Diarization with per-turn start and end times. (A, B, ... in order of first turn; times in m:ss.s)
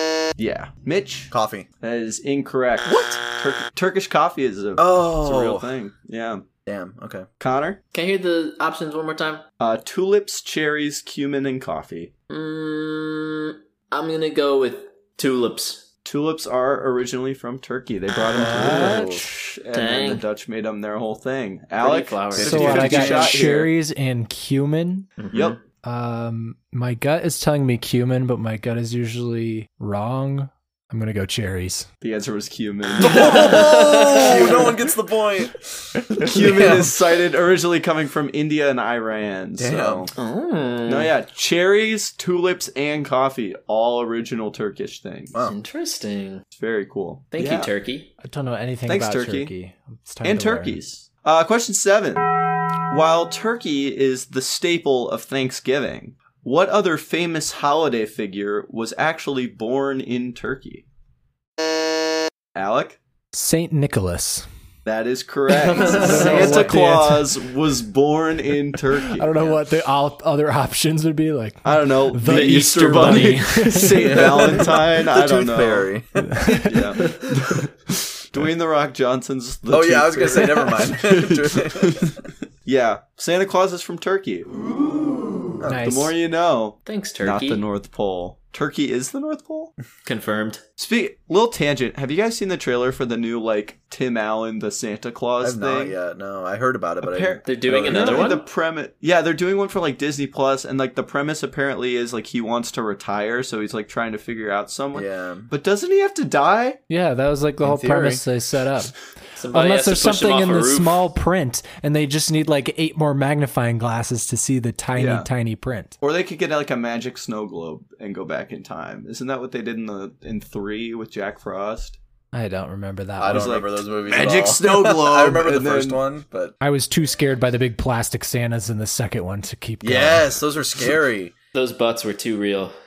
0:00.4-0:06.4 A
0:01.3-0:01.7 B
0:04.8-0:05.7 B
0:06.7-0:07.3 B
0:07.4-0:07.8 A
0:07.9-0:09.4 C
0:09.6-0:12.1 A
0:12.3-0:15.9 C
0:16.0-0:23.7 A
0:18.4-0:19.3 D
0:18.4-0:19.2 B
0:19.7-0:20.2 C
0:21.8-0:23.2 C
0:22.4-0:23.4 B
0:22.4-0:25.1 D
0:25.2-0:25.6 C
0:25.3-0:25.6 A
0:25.8-0:31.9 D
0:32.0-0:34.7 A
0:33.0-0:34.7 C
0:33.0-0:36.9 B
0:36.2-0:40.1 A
0:39.6-0:40.1 B
0:40.2-0:41.1 C
0:40.9-0:45.4 A
0:45.4-0:46.4 C
0:46.5-0:47.7 A
0:47.3-0:48.1 C
0:48.2-0:50.8 D
0:48.9-0:49.5 A
0:50.2-0:52.3 A
0:52.9-1:00.8 A
1:02.6-1:03.0 A
1:03.3-1:04.5 D
1:04.8-1:09.6 A
1:05.5-1:06.7 C
1:05.9-1:07.3 D
1:09.1-1:14.6 D
1:11.6-1:15.9 A
1:12.2-1:14.0 C
1:14.1-1:16.6 B
1:16.3-1:16.7 D
1:16.6-1:24.7 A
1:17.1-1:17.4 C
1:19.7-1:22.1 B
1:25.6-1:25.8 B
1:25.6-1:26.1 D
1:25.8-1:29.7 A
1:26.9-1:27.6 C
1:30.0-1:30.6 C
1:30.8-1:36.0 A
1:35.4-1:38.4 B
1:37.0-1:46.8 A
1:37.4-1:38.4 C
1:44.9-1:45.5 B
1:46.9-1:48.9 D
1:47.6-1:48.2 B
1:49.4-1:51.0 C
1:49.5-1:56.0 D
1:55.0-1:55.3 A
1:56.0-2:02.0 A
2:02.3-2:03.6 D
2:03.2-2:06.6 B
2:03.3-2:06.0 A
2:06.6-2:10.4 D
2:09.8-2:11.3 B
2:11.5-2:12.7 C